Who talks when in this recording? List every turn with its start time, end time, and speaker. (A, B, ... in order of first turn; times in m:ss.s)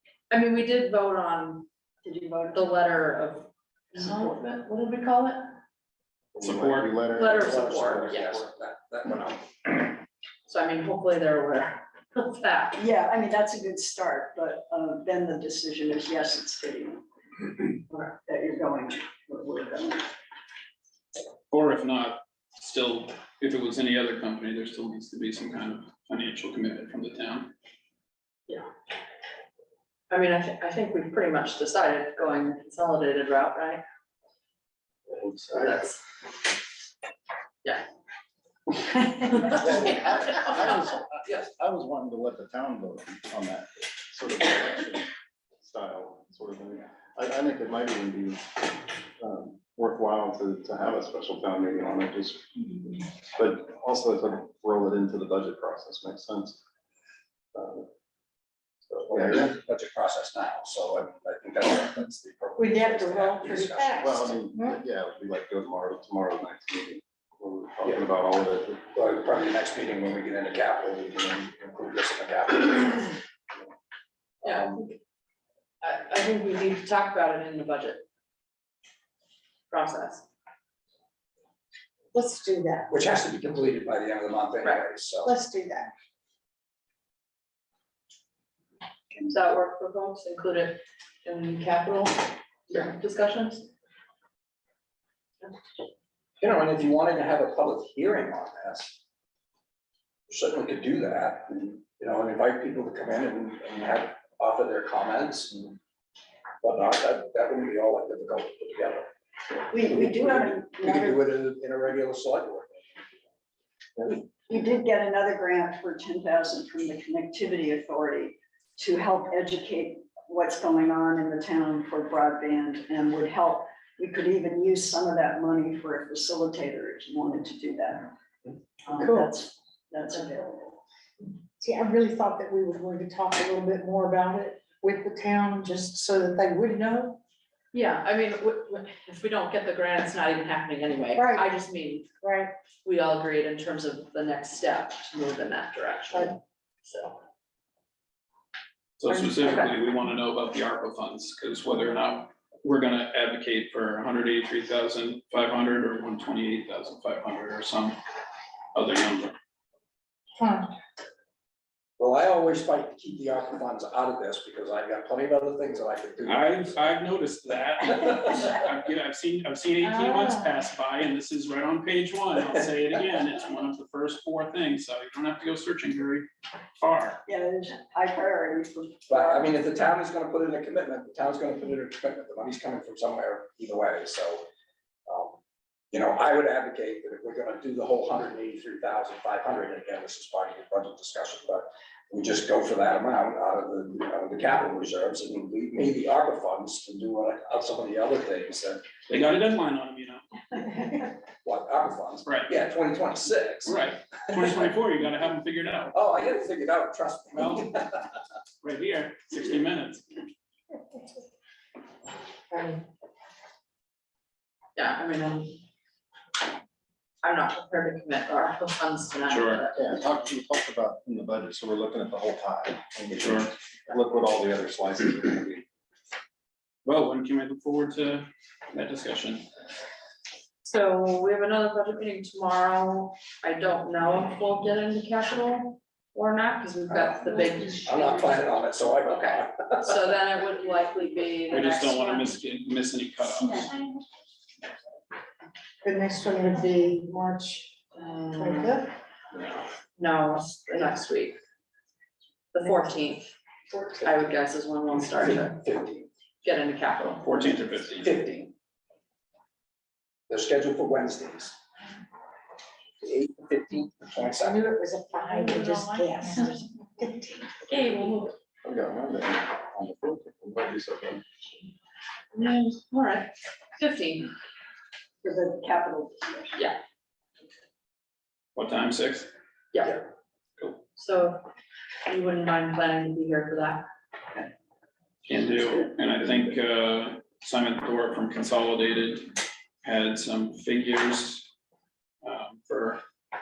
0:00.3-0:01.6 A
0:02.0-0:02.6 B
0:02.5-0:05.6 A
0:06.3-0:08.4 C
0:06.4-0:06.9 D
0:07.1-0:08.4 A
0:07.4-0:10.0 E
0:10.4-0:12.8 A
0:12.8-0:17.0 B
0:17.6-0:20.1 B
0:21.5-0:27.5 D
0:30.1-0:33.8 A
0:35.1-0:35.9 C
0:35.5-0:36.0 A
0:39.1-0:40.7 A
0:39.3-0:48.6 C
0:49.2-0:56.6 C
0:57.5-0:57.9 C
0:58.9-0:59.5 C
0:59.1-1:04.3 E
1:02.6-1:04.8 F
1:04.0-1:08.8 C
1:08.9-1:13.2 E
1:14.4-1:15.0 A
1:14.4-1:14.8 E
1:15.8-1:18.0 A
1:19.7-1:20.3 A
1:22.1-1:22.9 F
1:22.9-1:25.3 E
1:25.2-1:25.9 F
1:29.2-1:33.7 A
1:36.4-1:39.0 E
1:40.3-1:45.8 E
1:46.6-1:49.0 E
1:49.7-1:51.2 B
1:50.0-1:52.8 E
1:54.0-2:08.1 B
2:08.8-2:10.8 B
2:09.0-2:09.3 F
2:11.6-2:17.2 F
2:17.7-2:22.2 A
2:21.1-2:21.5 F
2:22.2-2:22.5 F
2:22.8-2:27.2 A
2:29.0-2:38.0 D
2:29.1-2:29.7 A
2:38.7-2:39.3 D
2:40.4-2:40.7 F
2:42.0-2:47.0 E
2:46.2-2:56.3 D
2:49.8-2:50.4 F
2:56.8-2:57.2 D
2:57.2-2:59.5 B
2:59.1-3:04.4 E
3:05.1-3:05.4 E
3:05.9-3:18.8 E
3:19.1-3:20.2 D
3:21.4-3:23.8 E
3:22.2-3:22.5 D
3:23.6-3:25.9 D
3:25.9-3:28.1 E
3:28.6-3:30.0 D
3:32.5-3:32.8 F
3:34.8-3:35.6 A
3:37.2-3:39.7 A
3:39.3-3:39.6 D
3:39.8-3:45.6 C
3:43.1-3:43.5 D
3:46.8-3:49.4 D
3:50.6-3:58.5 A
3:56.9-3:57.3 E
3:57.4-3:57.6 F
3:57.8-4:00.0 E
3:59.1-4:02.3 A
4:01.5-4:03.8 D
4:05.8-4:08.9 F
4:08.0-4:08.8 A
4:09.4-4:11.4 A
4:12.5-4:13.3 A
4:13.9-4:15.6 A
4:15.2-4:16.1 E
4:16.4-4:17.3 A
4:17.2-4:18.1 D
4:18.0-4:18.5 E
4:20.3-4:21.5 E
4:23.0-4:24.7 E
4:24.3-4:28.1 F
4:25.2-4:26.5 A
4:27.7-4:28.3 A
4:28.6-4:31.2 C
4:32.3-4:34.3 A
4:35.2-4:36.6 B
4:38.5-4:39.3 D
4:39.7-4:40.0 A
4:41.0-4:41.4 A
4:42.0-4:43.8 A
4:45.3-4:49.3 D
4:49.8-4:51.5 D
4:52.2-4:53.0 D